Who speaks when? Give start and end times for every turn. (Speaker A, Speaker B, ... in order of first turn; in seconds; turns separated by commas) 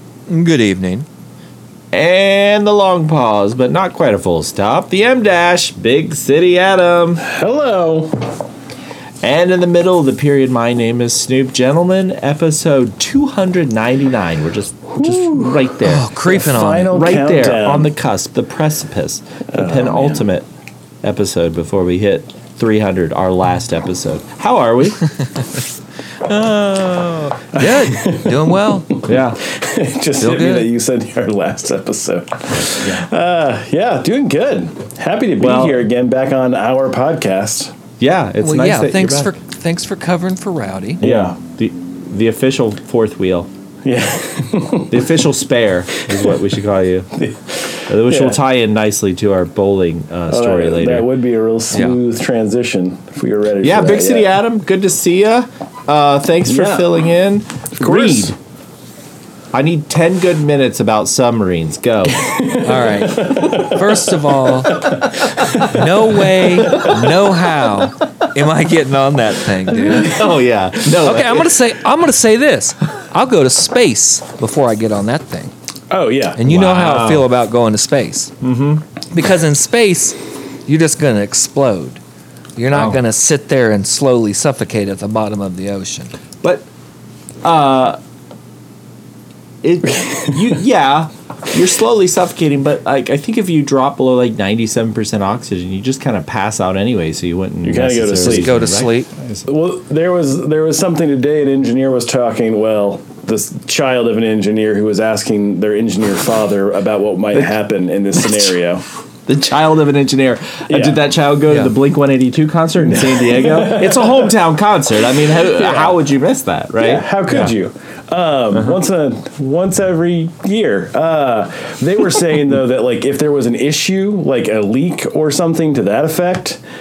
Speaker A: 0.3-1.1, Speaker B: 1.9-7.2, Speaker C: 7.2-8.2, Speaker B: 9.2-16.1, Speaker C: 14.9-15.7, Speaker A: 15.8-17.1, Speaker C: 16.2-17.9, Speaker B: 16.9-20.5, Speaker C: 19.5-20.3, Speaker B: 21.0-25.1, Speaker A: 26.2-29.1, Speaker C: 27.5-37.7, Speaker B: 29.1-29.4, Speaker A: 30.2-30.7, Speaker B: 32.6-33.0, Speaker B: 35.4-35.9, Speaker B: 38.0-39.3, Speaker A: 38.4-41.0, Speaker C: 41.0-41.4, Speaker B: 41.0-43.5, Speaker C: 43.9-45.2, Speaker B: 44.9-47.1, Speaker C: 46.1-46.3, Speaker C: 47.2-48.4, Speaker B: 47.9-51.1, Speaker C: 50.3-54.3, Speaker A: 51.7-52.0, Speaker B: 53.6-58.4, Speaker C: 56.5-57.0, Speaker C: 57.8-58.3, Speaker B: 59.5-62.4, Speaker C: 62.2-65.8, Speaker A: 62.5-70.3, Speaker B: 65.2-65.7, Speaker B: 66.4-67.9, Speaker B: 69.7-71.6, Speaker A: 70.8-75.5, Speaker C: 75.9-76.4, Speaker A: 76.4-78.3, Speaker B: 76.5-77.3, Speaker B: 78.4-78.8, Speaker A: 79.1-82.0, Speaker A: 82.6-86.1, Speaker B: 82.7-83.0, Speaker B: 87.4-88.0, Speaker B: 89.6-99.5, Speaker C: 89.9-90.5, Speaker C: 97.6-98.5, Speaker A: 98.2-99.1, Speaker C: 99.5-108.8, Speaker B: 108.2-108.5, Speaker B: 109.3-117.5, Speaker C: 110.7-111.0, Speaker A: 111.5-111.7, Speaker C: 112.8-114.3, Speaker C: 115.5-116.0, Speaker C: 116.8-126.6, Speaker B: 118.5-118.8